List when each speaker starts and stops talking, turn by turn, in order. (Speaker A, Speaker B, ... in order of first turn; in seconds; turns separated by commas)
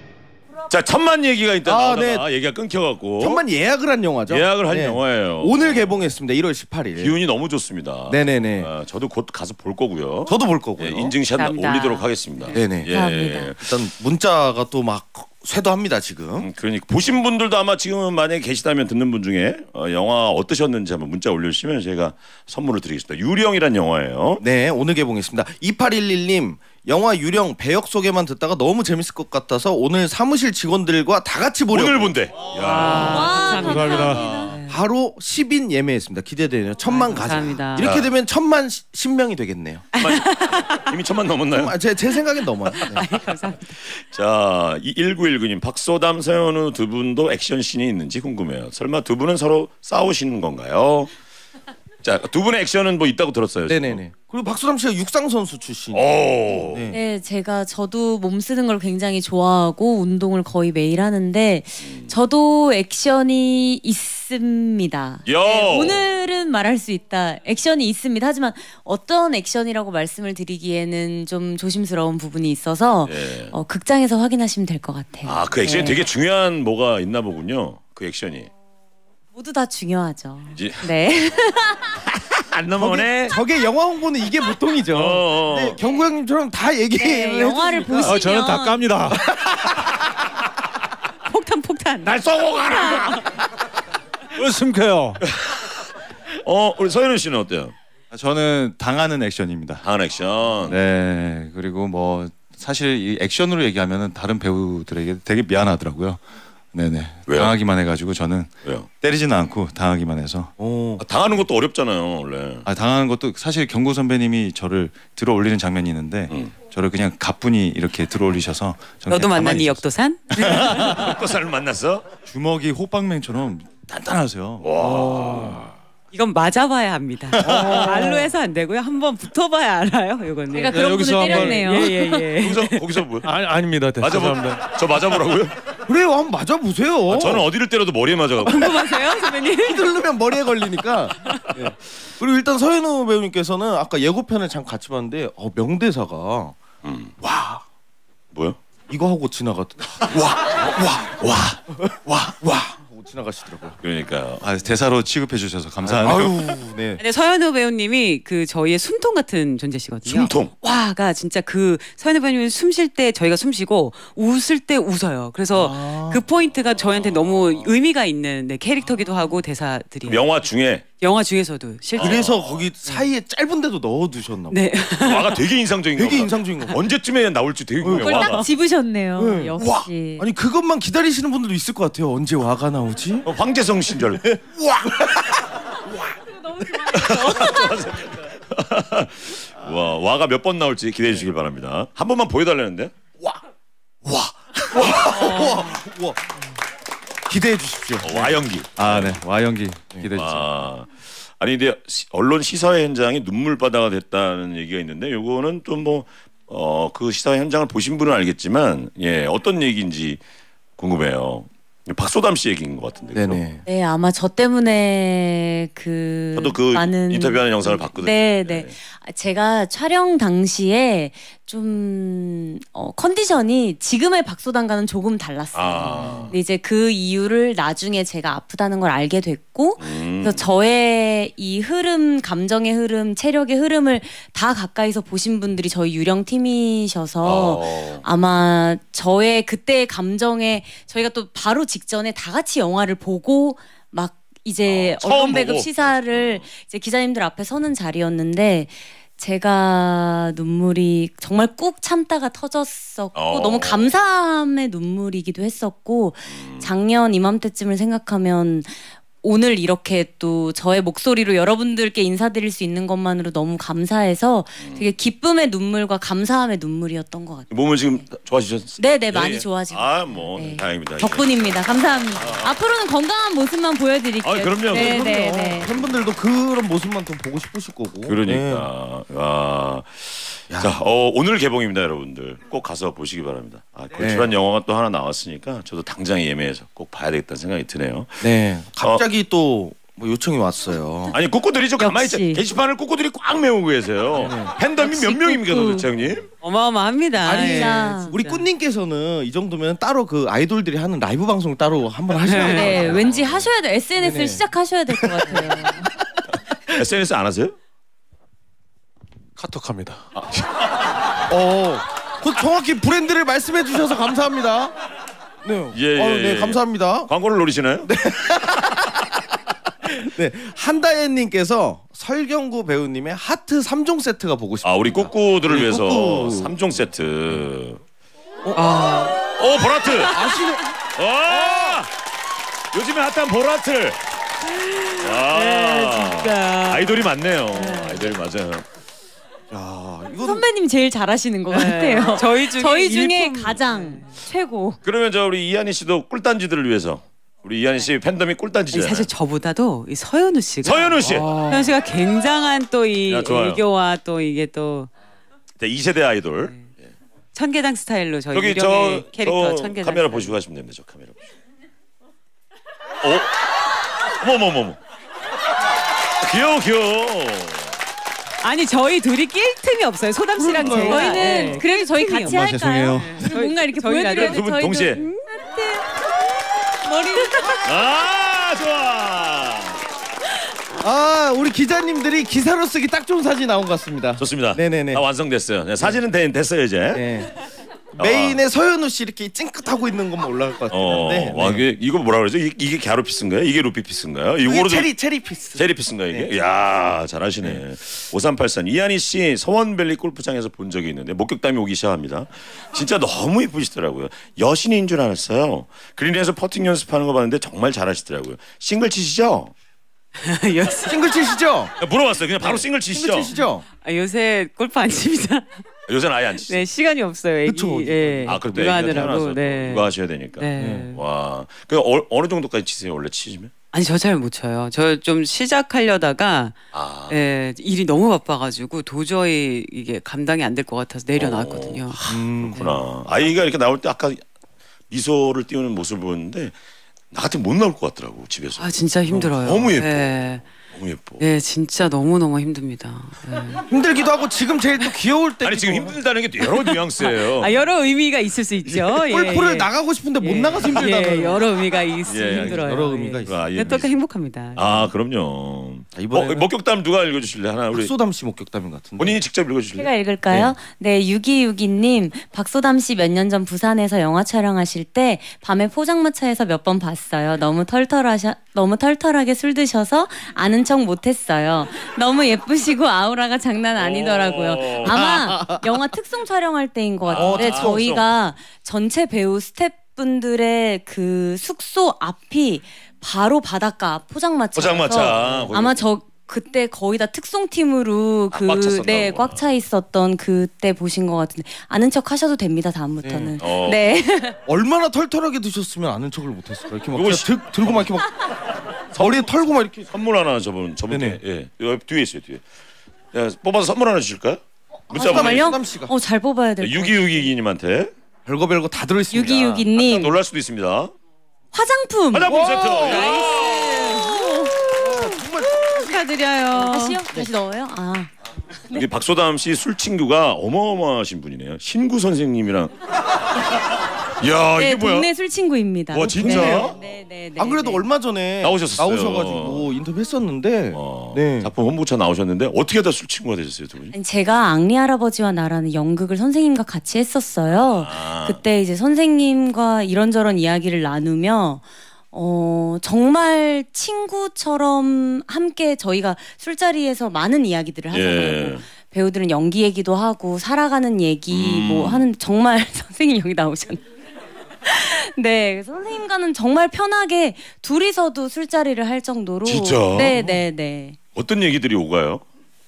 Speaker A: 0.7-3.4, Speaker B: 1.6-2.2, Speaker B: 3.2-7.2, Speaker A: 4.3-6.1, Speaker A: 7.0-13.8, Speaker B: 8.1-8.7, Speaker B: 10.3-11.1, Speaker C: 11.3-12.6, Speaker B: 12.5-12.9, Speaker D: 12.9-13.5, Speaker B: 13.6-16.5, Speaker A: 16.4-24.4, Speaker B: 24.4-32.2, Speaker A: 31.7-34.4, Speaker C: 32.5-34.7, Speaker E: 32.8-34.5, Speaker D: 32.9-34.6, Speaker B: 34.6-39.9, Speaker C: 36.9-37.9, Speaker A: 37.8-38.1, Speaker C: 39.9-40.9, Speaker A: 40.0-41.8, Speaker B: 41.5-43.0, Speaker C: 42.7-43.8, Speaker A: 43.8-51.1, Speaker A: 52.0-54.0, Speaker B: 53.7-57.0, Speaker A: 55.9-56.9, Speaker D: 56.9-76.0, Speaker A: 61.8-62.1, Speaker A: 65.2-66.0, Speaker A: 73.0-73.5, Speaker A: 75.2-78.5, Speaker D: 79.3-82.0, Speaker A: 80.5-80.9, Speaker A: 82.1-83.4, Speaker B: 82.8-88.2, Speaker A: 84.9-85.8, Speaker D: 85.8-86.1, Speaker D: 87.0-88.9, Speaker E: 88.0-89.2, Speaker B: 89.3-89.8, Speaker C: 91.2-93.3, Speaker A: 92.0-93.2, Speaker E: 94.3-95.2, Speaker A: 95.2-95.9, Speaker A: 96.4-97.7, Speaker F: 98.1-99.8, Speaker A: 99.8-100.8, Speaker F: 100.6-106.2, Speaker F: 106.7-110.5, Speaker A: 107.3-107.5, Speaker B: 110.6-111.0, Speaker A: 111.0-112.7, Speaker F: 112.6-121.1, Speaker C: 119.1-121.1, Speaker A: 120.7-122.0, Speaker F: 122.3-124.7, Speaker A: 124.6-125.7, Speaker E: 124.8-125.6, Speaker C: 126.1-132.8, Speaker E: 127.4-128.3, Speaker F: 127.4-127.8, Speaker D: 130.5-132.3, Speaker E: 130.7-131.9, Speaker A: 132.4-133.3, Speaker E: 133.2-134.7, Speaker A: 134.0-135.6, Speaker B: 135.9-137.5, Speaker A: 137.1-138.9, Speaker C: 138.4-140.0, Speaker B: 138.6-146.6, Speaker A: 146.8-147.1, Speaker B: 147.2-147.6, Speaker A: 148.3-148.6, Speaker B: 148.9-153.8, Speaker A: 153.8-154.4, Speaker F: 154.4-156.3, Speaker B: 155.8-157.0, Speaker A: 156.0-156.3, Speaker C: 157.0-170.3, Speaker A: 160.0-160.5, Speaker B: 165.5-166.2, Speaker A: 166.9-167.3, Speaker A: 170.0-170.8, Speaker C: 171.0-172.2, Speaker A: 172.0-172.7, Speaker B: 172.0-174.6, Speaker C: 174.5-175.4, Speaker A: 175.0-178.5, Speaker B: 176.0-176.8, Speaker B: 177.8-178.3, Speaker D: 177.9-180.3, Speaker B: 179.2-183.3, Speaker A: 183.2-184.4, Speaker B: 184.2-185.3, Speaker D: 186.4-187.8, Speaker A: 186.9-193.0, Speaker B: 194.0-196.4, Speaker A: 194.7-195.7, Speaker B: 197.3-198.4, Speaker A: 198.0-199.2, Speaker F: 198.8-200.5, Speaker A: 200.1-210.2, Speaker A: 210.8-213.4, Speaker B: 213.1-213.6, Speaker D: 213.7-268.0, Speaker A: 216.3-218.7, Speaker A: 225.5-226.3, Speaker A: 229.8-230.5, Speaker A: 237.2-238.0, Speaker A: 244.6-246.4, Speaker A: 253.1-253.9, Speaker A: 256.3-256.7, Speaker A: 264.6-264.9, Speaker A: 267.5-272.5, Speaker D: 268.8-275.7, Speaker A: 274.2-276.0, Speaker B: 274.7-278.7, Speaker A: 278.1-289.0, Speaker B: 284.0-284.3, Speaker B: 288.2-291.1, Speaker A: 291.1-296.3, Speaker D: 291.8-292.4, Speaker B: 294.1-295.9, Speaker C: 296.4-298.4, Speaker B: 297.2-303.1, Speaker D: 297.3-298.1, Speaker C: 302.2-302.8, Speaker D: 302.3-305.9, Speaker A: 302.8-303.2, Speaker B: 304.0-304.4, Speaker B: 305.0-305.8, Speaker A: 306.7-307.6, Speaker E: 309.4-310.1, Speaker A: 310.1-310.9, Speaker B: 311.3-314.7, Speaker B: 315.4-317.1, Speaker A: 315.7-317.9, Speaker B: 317.8-319.0, Speaker B: 319.9-326.5, Speaker A: 324.6-327.8, Speaker C: 328.5-329.2, Speaker A: 329.3-330.2, Speaker B: 330.1-330.6, Speaker A: 330.9-331.9, Speaker A: 332.7-334.0, Speaker C: 334.6-337.9, Speaker A: 335.0-338.6, Speaker D: 337.6-338.0, Speaker B: 339.5-340.4, Speaker D: 340.2-344.8, Speaker C: 341.5-344.2, Speaker A: 344.8-349.1, Speaker C: 348.7-354.9, Speaker A: 350.6-351.4, Speaker B: 351.2-351.7, Speaker A: 353.1-353.6, Speaker A: 355.6-356.7, Speaker C: 357.3-360.3, Speaker A: 358.3-361.1, Speaker A: 363.0-363.3, Speaker A: 364.1-364.8, Speaker A: 366.2-367.7, Speaker C: 368.4-375.2, Speaker B: 370.4-371.6, Speaker D: 370.7-376.0, Speaker F: 372.2-373.4, Speaker A: 374.1-375.0, Speaker D: 376.8-377.9, Speaker A: 377.6-379.8, Speaker B: 380.8-385.0, Speaker A: 384.2-387.2, Speaker B: 386.9-387.3, Speaker B: 387.9-391.6, Speaker A: 388.0-388.4, Speaker A: 390.7-394.9, Speaker B: 394.4-396.3, Speaker A: 395.6-409.5, Speaker C: 410.1-411.4, Speaker B: 410.8-411.7, Speaker A: 411.8-413.3, Speaker B: 412.9-413.6, Speaker C: 413.8-415.6, Speaker A: 415.9-416.6, Speaker C: 416.5-421.0, Speaker B: 417.4-419.1, Speaker A: 418.2-423.5, Speaker B: 420.6-420.9, Speaker C: 423.7-426.6, Speaker A: 426.7-427.2, Speaker C: 427.1-432.0, Speaker A: 431.2-434.2, Speaker B: 432.1-432.6, Speaker C: 432.5-432.8, Speaker A: 434.9-436.5, Speaker A: 437.1-441.2, Speaker C: 438.6-440.4, Speaker C: 441.2-443.6, Speaker B: 443.7-446.0, Speaker A: 445.4-447.5, Speaker C: 446.4-454.8, Speaker A: 448.6-449.0, Speaker B: 449.1-451.4, Speaker A: 452.1-452.7, Speaker B: 452.3-453.4, Speaker A: 453.2-453.9, Speaker A: 454.5-457.9, Speaker B: 455.9-456.5, Speaker B: 457.7-459.2, Speaker A: 459.0-460.5, Speaker D: 459.8-494.4, Speaker A: 473.7-475.1, Speaker B: 474.9-475.7, Speaker A: 477.0-478.1, Speaker B: 477.1-477.9, Speaker A: 484.5-485.9, Speaker A: 488.3-489.4, Speaker B: 493.0-493.4, Speaker A: 493.4-493.9, Speaker B: 494.4-498.1, Speaker A: 496.9-497.9, Speaker B: 498.9-499.9, Speaker A: 499.0-499.3, Speaker A: 499.9-502.4, Speaker B: 500.9-501.2, Speaker A: 503.1-505.6, Speaker B: 504.9-505.9, Speaker D: 504.9-507.3, Speaker A: 506.6-507.9, Speaker B: 508.2-509.7, Speaker D: 509.1-510.2, Speaker A: 509.7-510.9, Speaker D: 511.5-515.2, Speaker A: 512.1-514.1, Speaker B: 512.4-512.9, Speaker C: 512.9-514.0, Speaker B: 514.6-515.9, Speaker C: 515.1-517.0, Speaker D: 516.5-518.1, Speaker A: 518.7-522.7, Speaker A: 524.2-525.1, Speaker D: 524.6-527.8, Speaker A: 525.9-526.8, Speaker B: 526.0-526.8, Speaker B: 527.4-531.5, Speaker A: 528.4-529.7, Speaker A: 530.7-533.9, Speaker D: 533.9-553.8, Speaker A: 537.7-538.4, Speaker A: 547.9-548.6, Speaker A: 551.3-552.0, Speaker D: 554.6-561.0, Speaker A: 559.4-560.2, Speaker B: 560.1-560.3, Speaker A: 561.1-562.2